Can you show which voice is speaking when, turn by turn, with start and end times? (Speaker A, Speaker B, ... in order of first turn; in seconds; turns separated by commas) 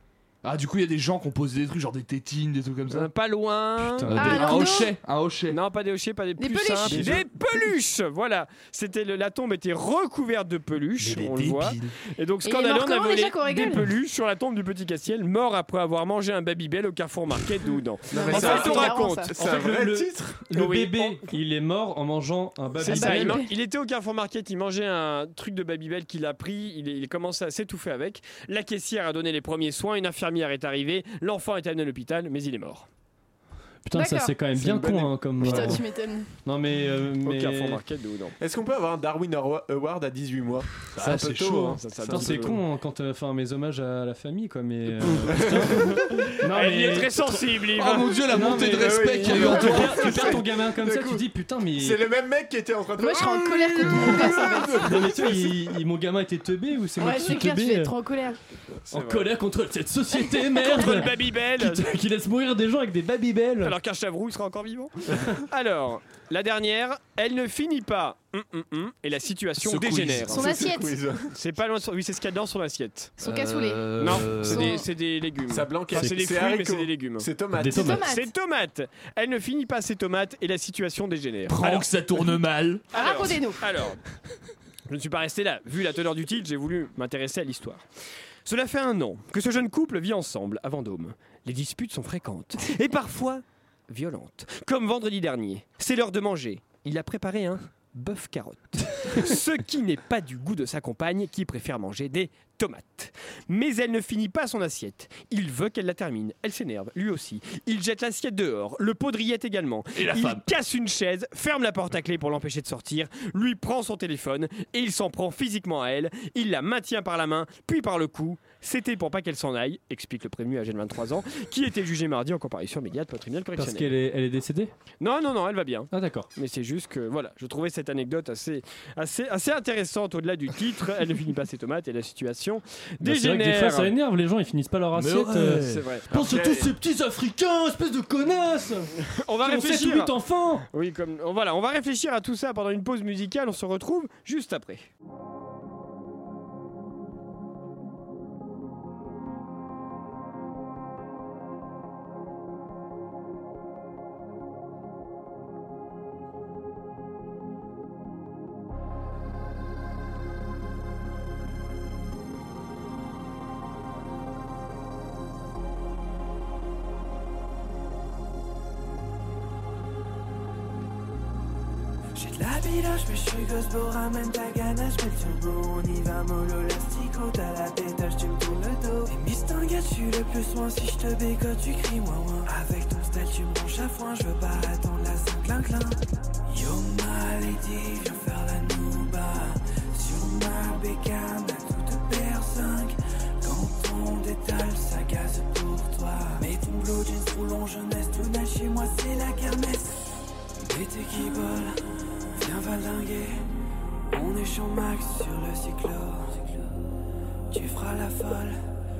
Speaker A: 0.4-3.1, Speaker B: 2.9-4.6, Speaker C: 3.8-4.3, Speaker A: 4.0-5.6, Speaker D: 4.1-4.9, Speaker B: 5.5-19.3, Speaker D: 6.4-7.1, Speaker E: 6.9-7.3, Speaker A: 11.0-11.9, Speaker D: 12.4-13.8, Speaker E: 18.1-20.4, Speaker D: 18.1-19.3, Speaker C: 19.3-23.4, Speaker B: 20.5-21.3, Speaker B: 22.8-32.9, Speaker D: 22.8-23.5, Speaker C: 33.8-35.8, Speaker D: 33.9-34.4, Speaker B: 34.5-35.8, Speaker D: 35.4-36.3, Speaker C: 36.4-37.8, Speaker B: 37.2-38.4, Speaker E: 38.4-42.2, Speaker A: 41.0-42.2, Speaker B: 41.6-42.6, Speaker C: 42.1-47.1, Speaker E: 45.4-45.7, Speaker B: 46.4-48.2, Speaker A: 47.7-50.4, Speaker C: 48.3-52.0, Speaker E: 48.6-55.1, Speaker D: 53.0-54.9, Speaker C: 54.0-57.9, Speaker D: 57.0-58.4, Speaker C: 58.9-63.8, Speaker B: 58.9-59.3, Speaker B: 60.5-61.9, Speaker B: 63.6-70.4, Speaker E: 69.6-71.2, Speaker A: 69.7-70.0, Speaker D: 70.3-71.0, Speaker B: 71.3-73.1, Speaker D: 73.2-74.8, Speaker A: 73.2-74.8, Speaker B: 74.0-77.3, Speaker E: 75.5-78.0, Speaker C: 77.5-78.0, Speaker D: 77.7-78.3, Speaker B: 78.1-81.9, Speaker A: 81.5-82.8, Speaker B: 82.9-84.0, Speaker D: 82.9-83.7, Speaker B: 84.9-87.8, Speaker B: 88.5-123.9, Speaker A: 109.9-110.5, Speaker C: 123.5-124.7, Speaker B: 125.0-133.9, Speaker C: 125.9-126.3, Speaker C: 133.0-140.6, Speaker A: 134.9-136.5, Speaker B: 135.6-136.4, Speaker B: 139.0-140.1, Speaker B: 140.7-144.9, Speaker F: 172.1-199.9, Speaker F: 200.6-201.8, Speaker F: 202.3-203.4, Speaker F: 204.1-206.4, Speaker F: 207.5-208.6